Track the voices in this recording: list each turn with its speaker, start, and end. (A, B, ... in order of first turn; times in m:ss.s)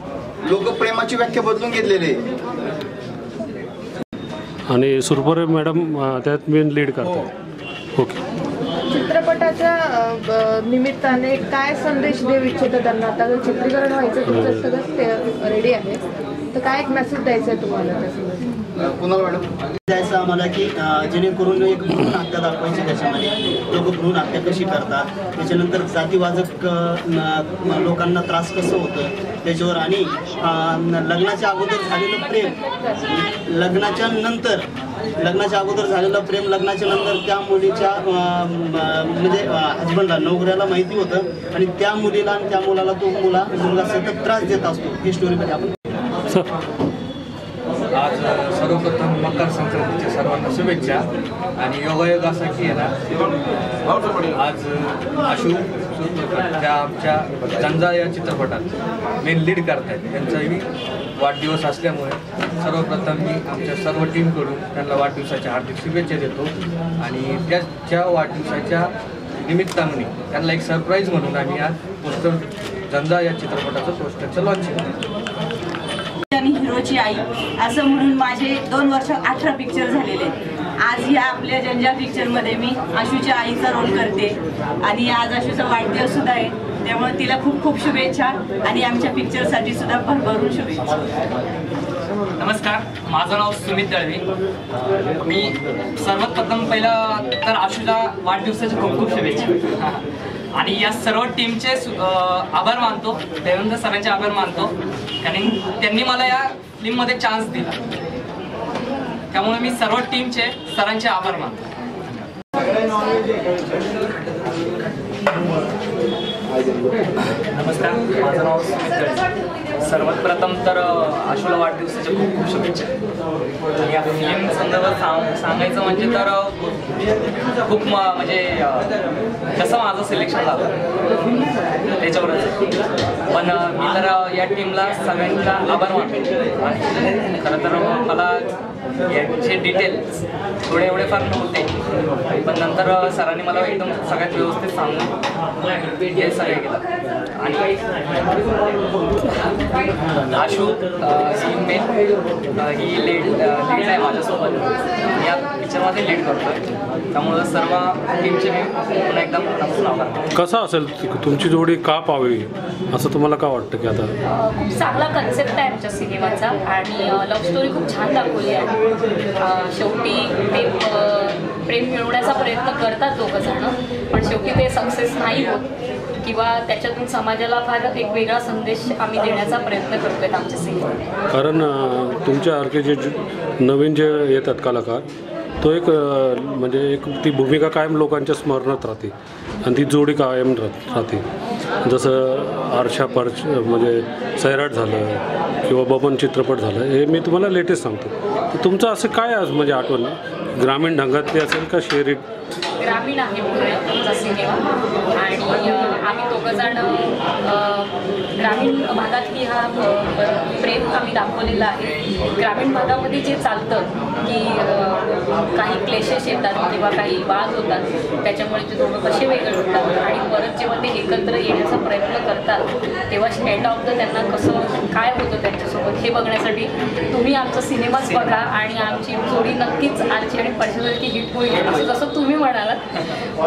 0:00.4-0:02.2 A
0:04.7-0:07.3 B
0:08.9-0:16.0 C
0:14.3-0:14.7 B
0:16.5-0:18.3 C
0:18.8-0:19.4 A
0:19.9-0:34.6 D
0:35.2-0:45.7 D
0:47.9-0:51.0 E
0:51.6-0:53.0 E
0:53.7-0:58.7 E
0:59.2-1:00.7 E
1:01.2-1:08.9 E
1:09.4-1:14.8 E
1:16.3-1:31.0 F
1:32.4-1:34.2 G
1:35.2-1:47.7 G
1:49.3-1:51.6 G
1:57.5-1:59.2 G
1:59.8-2:02.9 G
2:03.8-2:06.6 G
2:07.6-2:08.9 G
2:09.6-2:11.4 G
2:12.0-2:12.6 G
2:13.3-2:18.5 G
2:19.1-2:21.7 G
2:22.4-2:25.1 G
2:25.9-2:26.8 G
2:27.4-2:27.8 G
2:30.3-2:31.9 G
2:32.6-2:40.3 G
2:40.3-2:44.1 B
2:44.3-2:48.7 H
2:49.4-2:55.7 H
2:56.2-3:01.0 H
3:01.3-3:05.0 B
3:05.6-3:09.1 B
3:09.6-3:11.2 B
3:11.8-3:22.2 B
3:22.8-3:52.9 H